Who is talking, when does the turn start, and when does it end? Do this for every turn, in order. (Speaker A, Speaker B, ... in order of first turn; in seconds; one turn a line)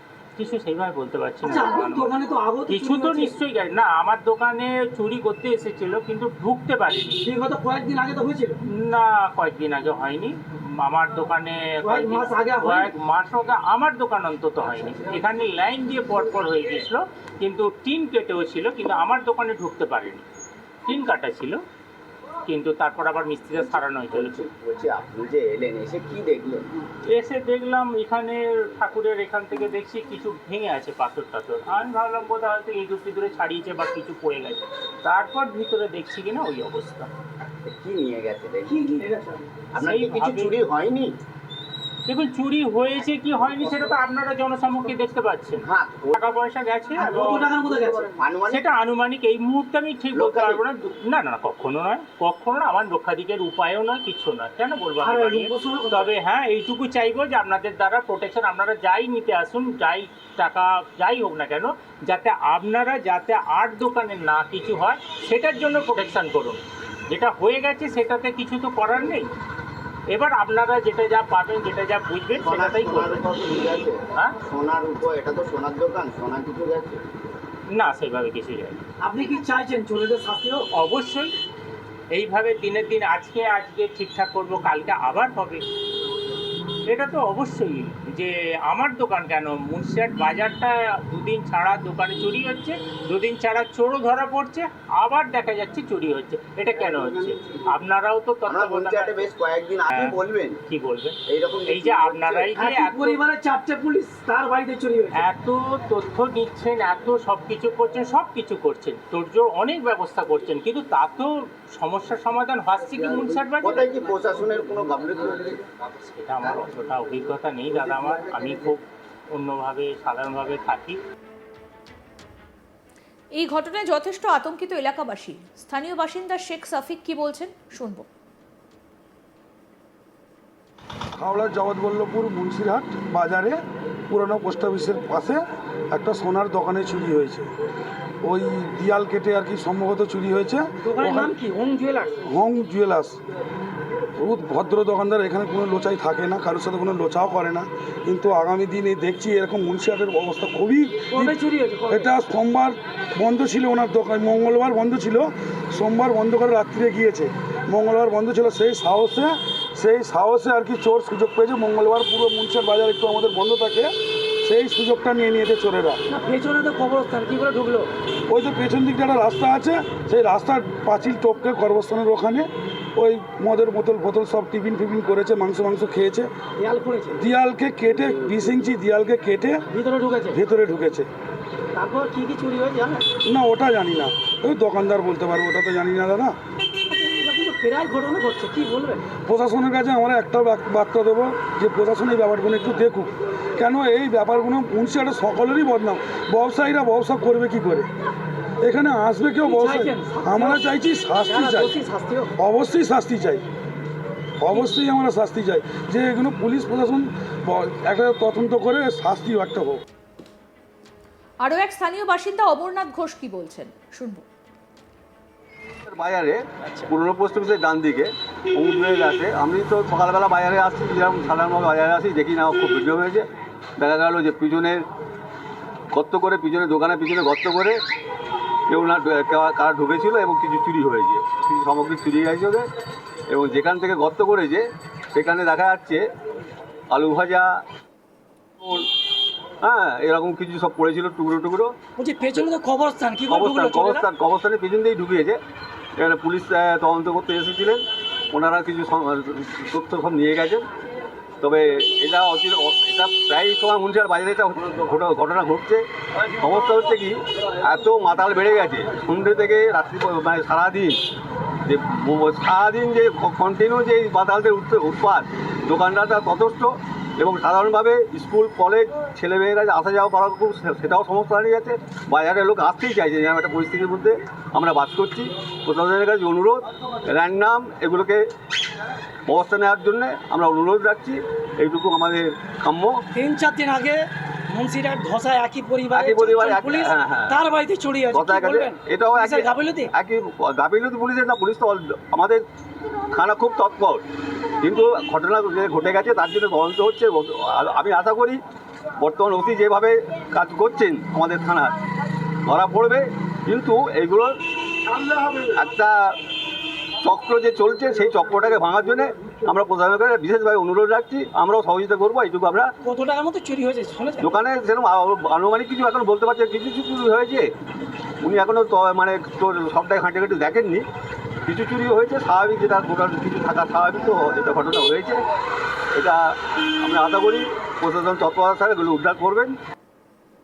Speaker A: 0.4-7.3
Speaker B: 1.4-3.4
Speaker B: 7.2-8.6
Speaker A: 8.8-20.2
Speaker B: 11.8-12.9
Speaker A: 20.9-21.6
Speaker A: 22.5-24.5
Speaker C: 23.6-26.7
Speaker A: 27.1-37.1
Speaker C: 37.6-39.1
Speaker B: 38.7-39.7
Speaker C: 39.7-41.2
Speaker A: 39.8-40.5
Speaker A: 42.1-47.5
Speaker C: 45.6-46.2
Speaker B: 47.0-48.1
Speaker C: 48.2-48.6
Speaker A: 48.5-69.3
Speaker C: 50.1-50.6
Speaker B: 55.0-56.1
Speaker A: 70.1-73.2
Speaker C: 72.3-77.0
Speaker A: 77.7-78.8
Speaker B: 79.0-80.7
Speaker A: 80.8-81.3
Speaker A: 82.1-85.6
Speaker A: 86.9-99.3
Speaker C: 98.5-100.6
Speaker A: 99.9-103.2
Speaker C: 101.3-102.5
Speaker B: 102.5-105.2
Speaker A: 105.1-113.9
Speaker C: 113.6-115.7
Speaker A: 115.9-121.0
Speaker D: 123.3-128.1
Speaker E: 131.2-137.5
Speaker E: 138.2-141.3
Speaker B: 140.8-142.2
Speaker E: 142.3-143.2
Speaker E: 144.2-151.4
Speaker B: 151.1-152.1
Speaker E: 151.9-163.9
Speaker E: 164.4-166.0
Speaker B: 166.1-167.9
Speaker E: 168.3-176.3
Speaker B: 176.6-177.2
Speaker E: 177.1-179.6
Speaker B: 179.7-180.4
Speaker E: 180.3-181.1
Speaker B: 181.7-183.0
Speaker E: 183.2-186.4
Speaker B: 186.8-189.0
Speaker E: 189.2-197.9
Speaker E: 198.6-201.7
Speaker B: 199.4-200.6
Speaker B: 201.2-202.3
Speaker E: 202.4-203.4
Speaker E: 204.4-209.8
Speaker D: 211.4-214.2
Speaker F: 215.9-224.8
Speaker F: 225.9-227.8
Speaker F: 228.7-232.7
Speaker F: 233.3-236.1
Speaker F: 236.9-237.6
Speaker F: 238.6-238.9
Speaker F: 239.6-241.8
Speaker B: 242.0-244.1
Speaker F: 243.3-245.4
Speaker F: 246.0-250.7
Speaker F: 251.4-255.8
Speaker F: 256.4-261.0
Speaker F: 261.7-278.2
Speaker F: 279.3-283.0
Speaker B: 283.1-289.9
Speaker F: 285.9-287.4
Speaker F: 288.1-292.4
Speaker F: 293.1-294.0
Speaker F: 294.6-298.4
Speaker F: 299.0-301.8
Speaker F: 302.4-304.4
Speaker F: 305.5-306.2
Speaker F: 307.0-312.7
Speaker B: 312.8-314.4
Speaker F: 314.2-317.5
Speaker F: 318.2-320.9
Speaker F: 321.5-325.2
Speaker F: 325.9-329.6